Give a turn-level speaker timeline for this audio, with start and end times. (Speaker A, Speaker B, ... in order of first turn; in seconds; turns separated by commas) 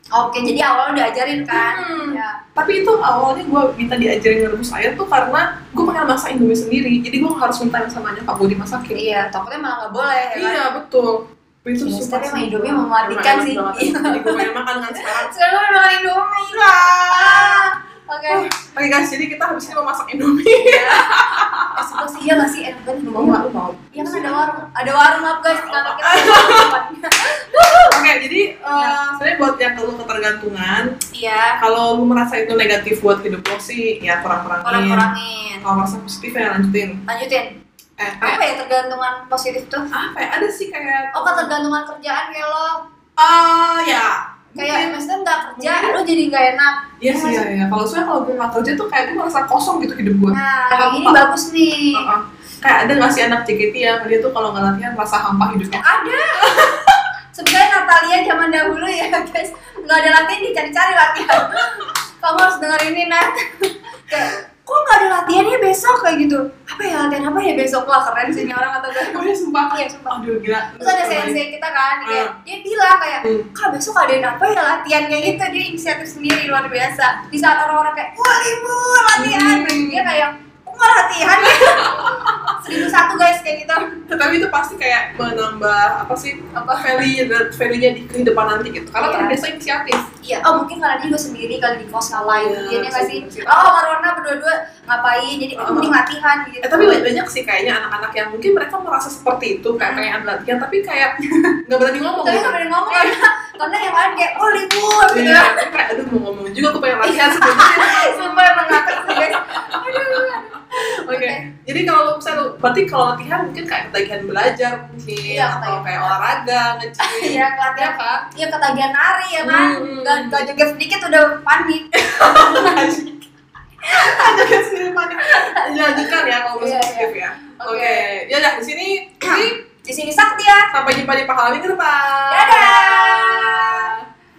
Speaker A: 0.1-2.4, Speaker B: 1.5-9.0, Speaker A: 8.9-10.6, Speaker B: 10.3-15.4, Speaker A: 11.8-18.5, Speaker B: 16.5-17.7, Speaker B: 18.3-22.0, Speaker A: 21.7-23.4, Speaker B: 23.0-24.6, Speaker A: 23.9-27.8, Speaker B: 25.4-26.7, Speaker B: 27.5-30.9, Speaker A: 31.1-31.6, Speaker B: 31.6-35.1, Speaker A: 34.6-35.7, Speaker B: 35.6-37.0, Speaker A: 37.1-37.6, Speaker B: 38.0-38.4, Speaker A: 38.2-39.9, Speaker B: 39.9-41.5, Speaker A: 41.1-42.8, Speaker B: 43.2-45.0, Speaker A: 44.5-47.5, Speaker B: 45.6-46.0, Speaker B: 47.0-51.2, Speaker A: 50.3-52.1, Speaker B: 51.9-57.0, Speaker A: 55.8-56.6, Speaker A: 57.4-70.2, Speaker B: 61.4-61.9, Speaker B: 68.9-71.4, Speaker A: 70.8-84.0, Speaker B: 72.0-72.3, Speaker B: 79.2-80.1, Speaker B: 81.3-82.9, Speaker B: 84.1-90.0, Speaker A: 89.0-89.4, Speaker A: 90.2-97.0, Speaker B: 92.1-93.8, Speaker B: 95.6-96.0, Speaker B: 96.6-101.1, Speaker A: 99.8-100.1, Speaker B: 101.7-103.2, Speaker A: 102.0-105.7, Speaker B: 105.1-118.3, Speaker A: 107.0-111.4, Speaker A: 115.3-116.4, Speaker A: 117.0-123.0, Speaker B: 119.4-120.5, Speaker B: 121.9-123.2, Speaker A: 123.8-124.4, Speaker B: 123.8-129.6, Speaker A: 125.2-128.1, Speaker A: 129.2-130.7, Speaker B: 130.7-134.0, Speaker A: 132.3-134.0